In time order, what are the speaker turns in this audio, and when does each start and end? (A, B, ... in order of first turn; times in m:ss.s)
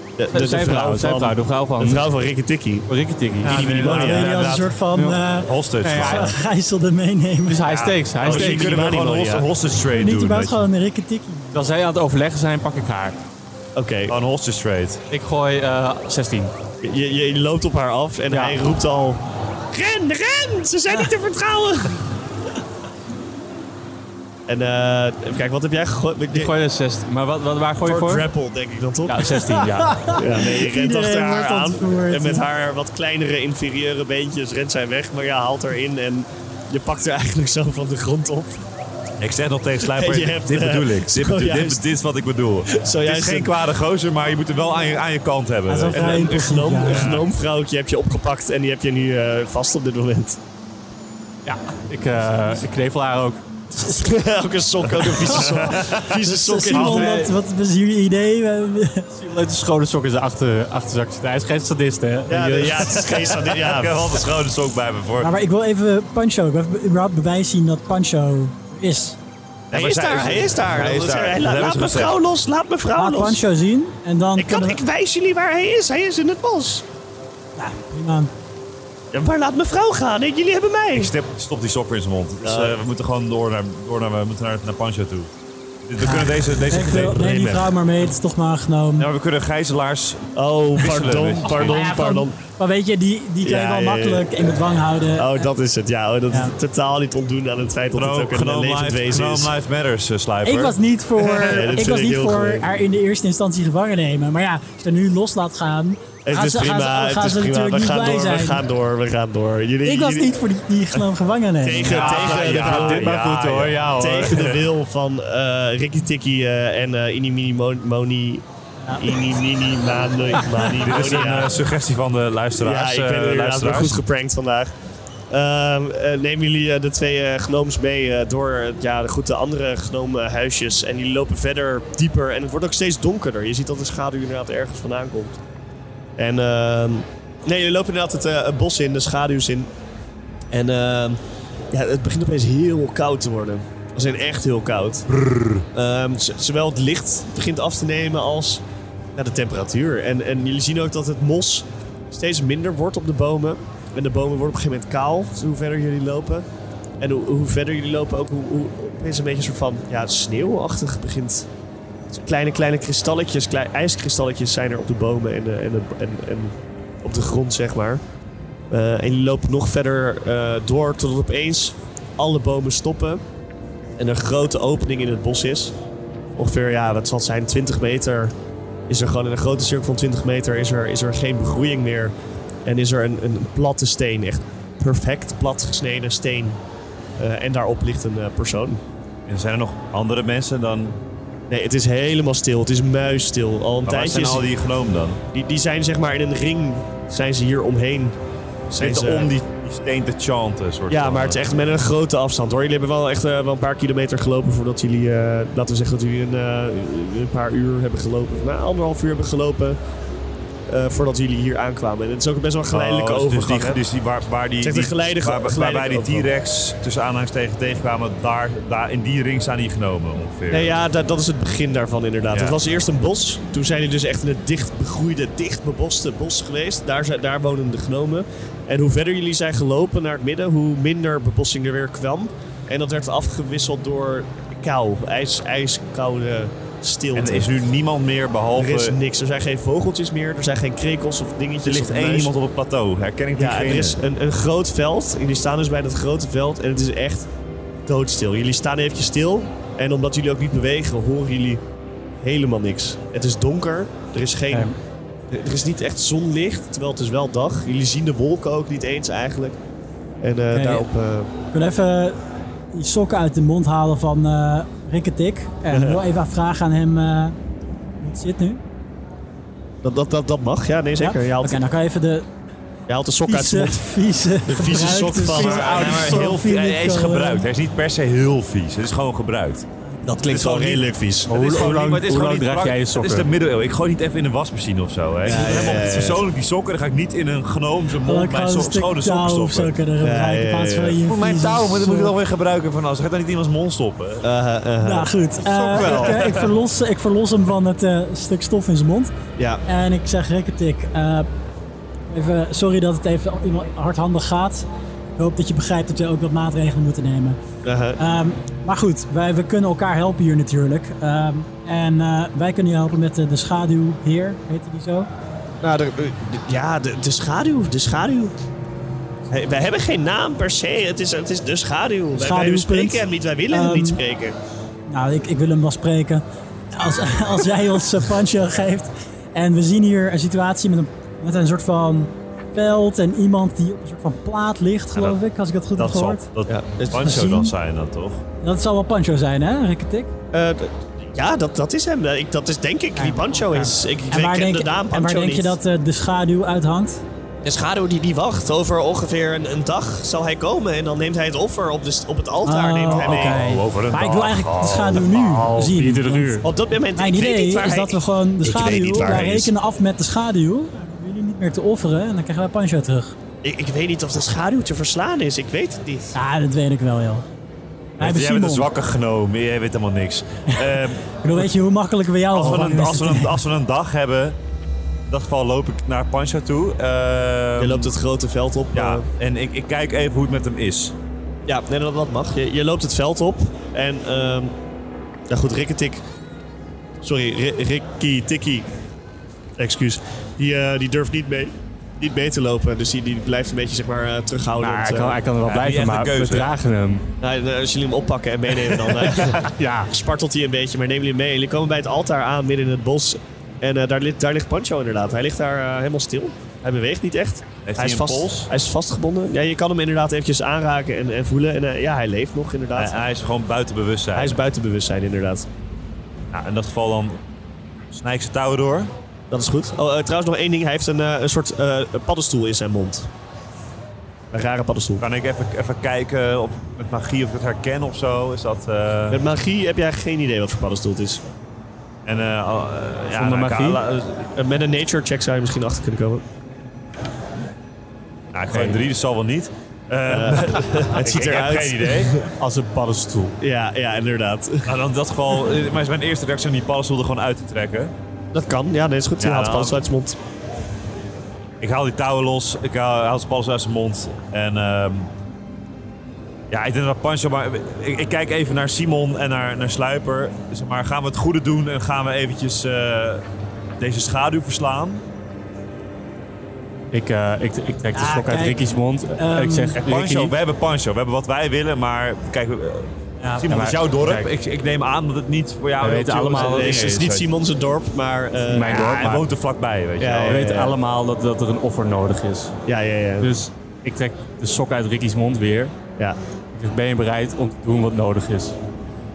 0:00.2-0:02.9 A
0:00.3-0:02.1 B
0:02.9-0:05.2 B
0:03.4-0:04.4 A
0:03.4-0:04.8 C
0:03.8-0:07.7 D
0:05.4-0:06.4 C
0:05.8-0:06.4 B
0:07.5-0:08.9 B
0:07.7-0:10.6 C
0:08.2-0:09.5 A
0:09.8-0:11.6 D
0:11.5-0:13.2 B
0:13.8-0:14.1 A
0:14.1-0:15.0 C
0:15.1-0:16.5 B
0:16.8-0:22.1 A
0:18.3-0:18.6 B
0:24.5-0:26.5 A
0:26.3-0:28.3 B
0:27.8-0:29.3 A
0:29.1-0:30.2 B
0:29.3-0:32.5 D
0:30.1-0:38.7 A
0:39.2-0:46.3 C
0:39.8-0:41.8 A
0:42.7-0:43.6 A
0:45.7-0:47.1 D
0:45.9-0:50.4 A
0:46.9-0:47.2 C
0:51.4-0:53.4 B
0:53.8-0:57.3 A
0:55.4-0:56.1 C
0:56.2-0:59.1 D
0:56.7-0:57.3 B
0:59.1-1:03.1 B
1:02.3-1:04.2 A
1:03.4-1:05.3 C
1:05.2-1:09.2 D
1:09.7-1:12.2 C
1:09.7-1:13.4 A
1:13.0-1:14.8 D
1:14.4-1:16.8 A
1:17.6-1:18.3 D
1:19.1-1:21.1 A
1:20.9-1:25.3 C
1:22.4-1:22.8 A
1:25.8-1:27.7 C
1:26.0-1:29.1 D
1:29.0-1:31.8 C
1:30.4-1:32.4 A
1:31.6-1:35.5 D
1:33.4-1:34.6 A
1:35.1-1:39.5 A
1:37.9-1:40.8 C
1:40.4-1:48.6 D
1:41.2-1:42.7 A
1:46.2-1:50.3 A
1:49.8-1:52.1 D
1:51.6-1:53.1 A
1:51.8-1:54.6 B
1:51.9-1:53.9 C
1:54.0-2:01.6 A
1:58.8-1:59.1 D
2:00.7-2:04.0 C
2:02.6-2:04.7 A
2:05.3-2:15.4 A
2:16.2-2:19.7 A
2:20.5-2:21.2 A
2:21.7-2:25.1 A
2:25.1-2:25.6 C
2:25.7-2:28.6 A
2:29.1-2:36.5 A
2:37.0-2:41.5 A
2:42.1-2:48.0 A
2:48.7-2:53.2 A
2:54.0-2:55.8 A
2:56.4-2:58.3 A
2:58.9-3:02.1 A
3:02.7-3:06.6 A
3:07.2-3:08.8 A
3:09.3-3:11.0 C
3:11.5-3:14.5 A
3:13.8-3:15.2 C
3:15.3-3:18.2 A
3:18.7-3:19.3 A
3:18.8-3:21.5 C
3:20.9-3:29.8 A
3:30.7-3:33.8 A
3:32.7-3:40.8 C
3:34.6-3:36.3 A
3:40.5-3:57.6 A
3:42.3-3:42.6 C
3:57.1-3:59.0 C
3:58.5-4:02.3 A
4:01.6-4:04.0 C
4:03.4-4:07.3 A
4:07.9-4:11.6 A
4:12.2-4:14.7 A
4:14.5-4:14.8 D
4:15.3-4:19.6 A
4:20.2-4:21.3 A
4:20.5-4:20.9 D
4:21.5-4:22.2 D
4:22.7-4:27.4 D
4:25.7-4:26.0 A
4:28.0-4:28.6 D
4:29.8-4:31.6 A
4:31.0-4:32.3 D
4:32.9-4:33.9 A
4:33.3-4:37.5 D
4:34.4-4:36.3 A
4:35.2-4:39.7 C
4:40.0-4:41.3 A
4:40.2-4:49.8 C
4:41.3-4:43.3 B
4:45.2-4:46.2 A
4:48.0-4:52.1 D
4:50.0-4:51.0 A
4:51.0-4:54.3 C
4:54.2-4:55.1 A
4:54.8-4:59.1 D
4:55.5-4:56.5 C
4:59.4-4:59.6 A
4:59.7-5:01.3 D
5:02.1-5:07.4 D
5:07.6-5:08.0 A
5:08.0-5:15.1 D
5:15.6-5:18.4 A
5:19.3-5:24.4 A
5:22.1-5:24.0 D
5:24.9-5:36.2 D
5:35.8-5:38.2 C
5:36.5-5:37.2 A
5:37.0-5:37.5 D
5:38.4-5:40.1 D
5:40.3-5:45.6 A
5:43.0-5:47.0 D
5:47.4-5:53.5 A
5:52.4-6:03.1 D
5:52.9-5:55.6 C
5:55.3-5:56.5 B
5:56.4-5:59.3 A
5:58.4-5:59.5 C
6:03.4-6:06.2 A
6:06.1-6:07.2 D
6:08.0-6:08.7 D
6:08.0-6:11.5 C
6:11.2-6:13.4 D
6:12.3-6:14.4 C
6:15.1-6:17.9 C
6:17.6-6:19.0 A
6:18.7-6:21.0 C
6:21.5-6:24.5 A
6:25.3-6:26.0 A
6:27.0-6:28.7 A
6:29.6-6:35.2 A
6:34.6-6:37.0 B
6:35.4-6:36.5 C
6:37.2-6:53.0 A
6:39.4-6:39.9 B
6:47.6-6:48.5 C
6:52.8-6:54.4 C
6:54.1-6:55.5 A
6:56.3-6:57.2 C
6:57.9-6:58.9 C
6:59.3-7:03.1 A
7:04.3-7:05.0 A
7:05.0-7:09.2 C
7:09.1-7:11.2 A
7:12.1-7:14.3 C
7:13.1-7:13.8 B
7:14.3-7:16.2 A
7:18.3-7:22.1 C
7:18.5-7:18.8 B
7:20.1-7:22.3 A
7:22.4-7:23.4 B
7:23.4-7:24.7 A
7:24.7-7:27.9 C
7:28.3-7:30.2 A
7:29.2-7:29.8 C
7:31.6-7:35.1 C
7:36.5-7:43.2 C
7:43.8-7:45.0 C
7:46.9-7:50.3 B
7:47.9-7:48.6 D
7:49.2-7:49.8 D
7:49.8-7:57.3 C
7:53.2-7:53.5 D
7:53.5-7:54.3 B
7:55.8-7:57.0 B
7:56.4-7:58.9 A
7:58.5-7:59.3 B
7:58.7-8:00.5 C
8:00.0-8:00.8 A
8:00.3-8:02.5 B
8:02.7-8:03.3 A
8:03.2-8:05.7 B
8:06.6-8:08.6 B